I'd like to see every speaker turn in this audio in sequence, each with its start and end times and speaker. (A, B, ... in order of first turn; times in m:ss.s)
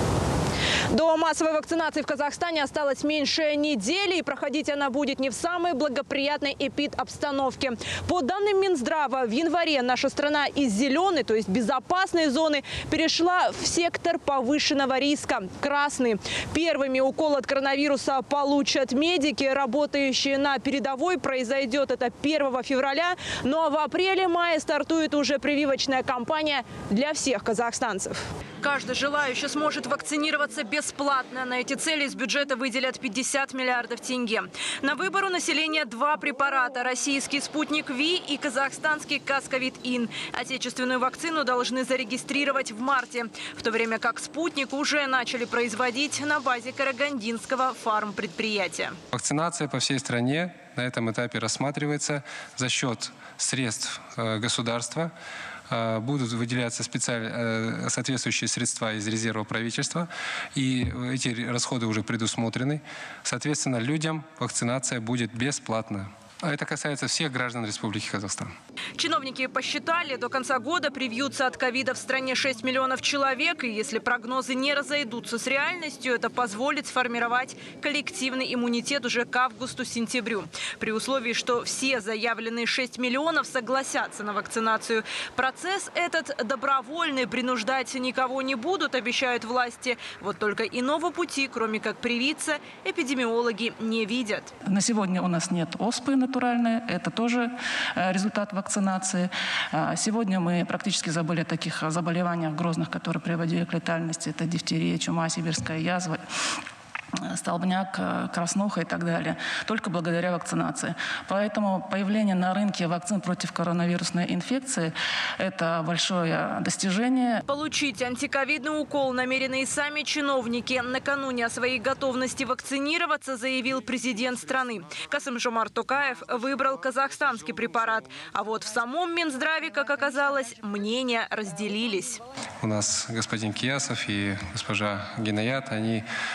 0:00.9-0:49.0 A
0:49.1-0:55.1 B
0:55.7-1:08.5 B
1:09.0-1:34.5 A
1:34.6-1:46.2 C
1:47.3-1:57.4 C
1:57.5-2:12.2 A
2:12.6-2:16.0 B